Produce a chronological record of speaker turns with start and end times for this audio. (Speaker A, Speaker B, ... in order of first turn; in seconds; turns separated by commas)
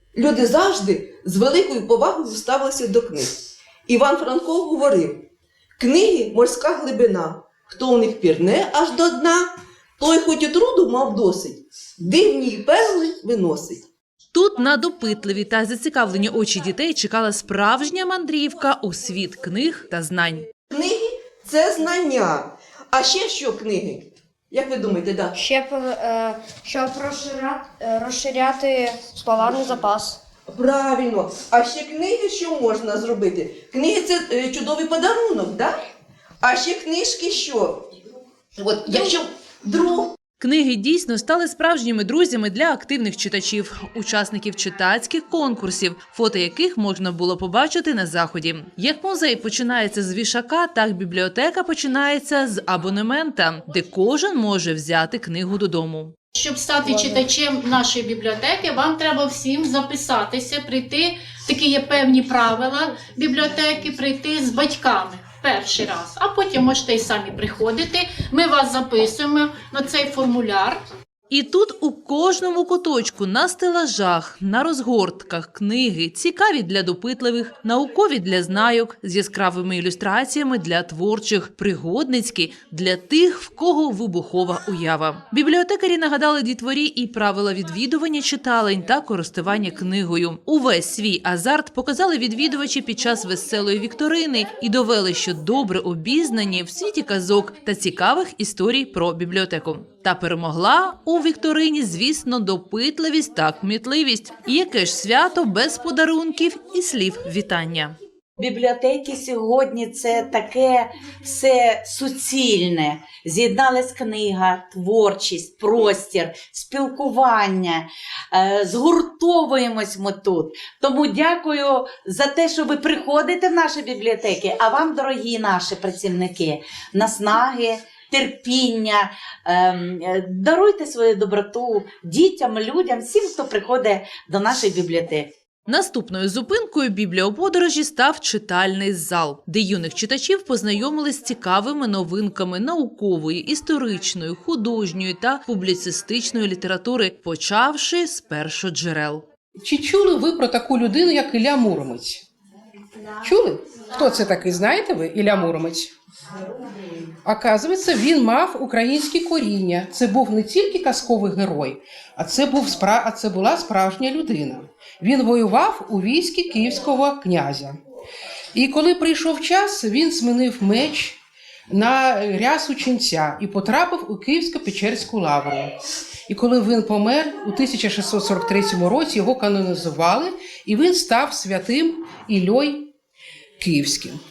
Speaker A: 0.2-3.3, Speaker A: 3.9-5.2, Speaker A: 5.8-9.5, Speaker A: 10.0-13.8, Speaker B: 14.3-20.4, Speaker A: 20.7-25.4, Speaker C: 25.4-30.2, Speaker A: 30.5-35.8, Speaker A: 36.4-37.8, Speaker A: 38.6-40.1, Speaker B: 40.4-56.1, Speaker D: 56.4-70.8, Speaker C: 56.9-57.2, Speaker B: 71.3-108.0, Speaker E: 108.4-135.3, Speaker B: 135.7-149.2, Speaker F: 149.6-152.2, Speaker F: 153.2-155.9, Speaker F: 157.2-167.8, Speaker F: 168.6-171.2, Speaker F: 171.7-175.7, Speaker F: 176.3-182.9, Speaker F: 183.6-184.2